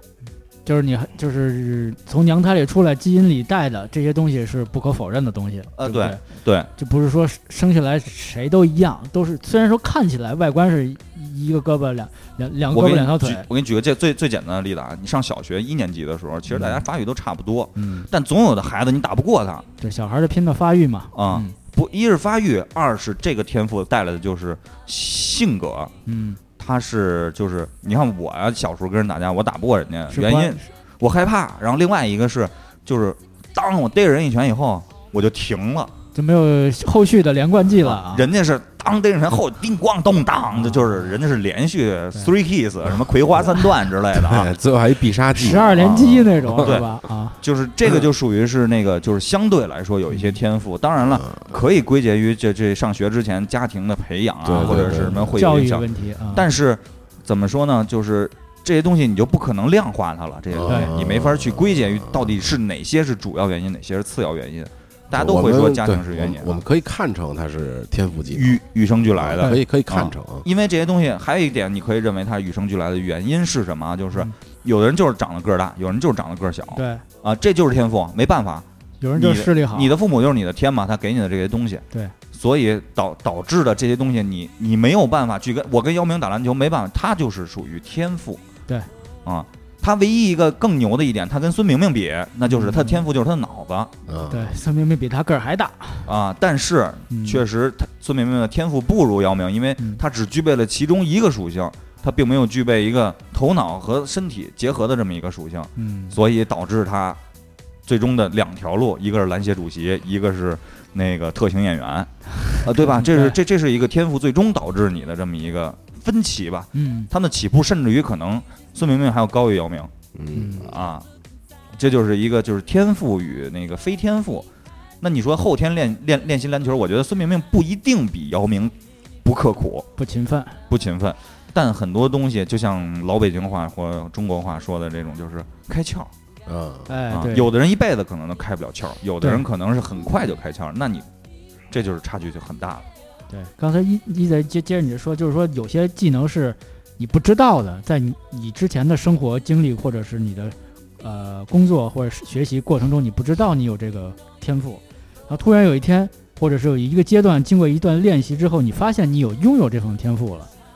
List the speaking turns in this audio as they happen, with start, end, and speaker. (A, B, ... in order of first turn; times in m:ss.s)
0:00.6-0:06.2 A
0:05.8-0:06.7 B
0:06.8-0:13.4 A
0:12.7-0:19.7 B
0:16.5-0:16.8 A
0:17.8-0:18.1 A
0:19.8-0:21.6 A
0:21.1-0:25.9 B
0:26.0-0:26.4 A
0:26.6-0:35.9 B
0:30.1-0:30.7 A
0:36.1-0:38.3 A
0:37.8-0:44.5 B
0:40.5-0:41.1 A
0:44.1-0:46.8 C
0:45.3-0:47.4 A
0:45.8-0:46.9 B
0:47.4-1:06.6 B
0:50.1-0:50.4 A
0:51.1-0:51.6 C
0:54.4-0:55.4 C
0:54.6-0:56.4 A
1:00.5-1:02.4 C
1:00.7-1:00.9 A
1:05.1-1:08.6 C
1:08.3-1:28.4 B
1:09.1-1:10.4 C
1:16.7-1:17.0 A
1:19.0-1:19.9 A
1:29.2-1:33.9 B
1:32.4-1:33.0 A
1:34.1-1:34.6 C
1:34.3-1:36.1 A
1:36.0-1:47.2 B
1:37.1-1:37.4 A
1:45.8-1:46.2 A
1:47.8-1:59.9 B
1:52.5-1:53.4 A
1:56.7-1:57.1 A
2:00.1-2:00.8 C
2:00.3-2:00.6 A
2:00.6-2:01.0 B
2:01.8-2:04.5 B
2:05.0-2:09.9 B
2:10.0-2:10.6 A
2:10.7-2:16.1 B
2:16.4-2:16.9 C
2:16.9-2:17.5 A
2:17.1-2:21.0 B
2:21.7-2:22.8 B
2:23.3-2:40.5 A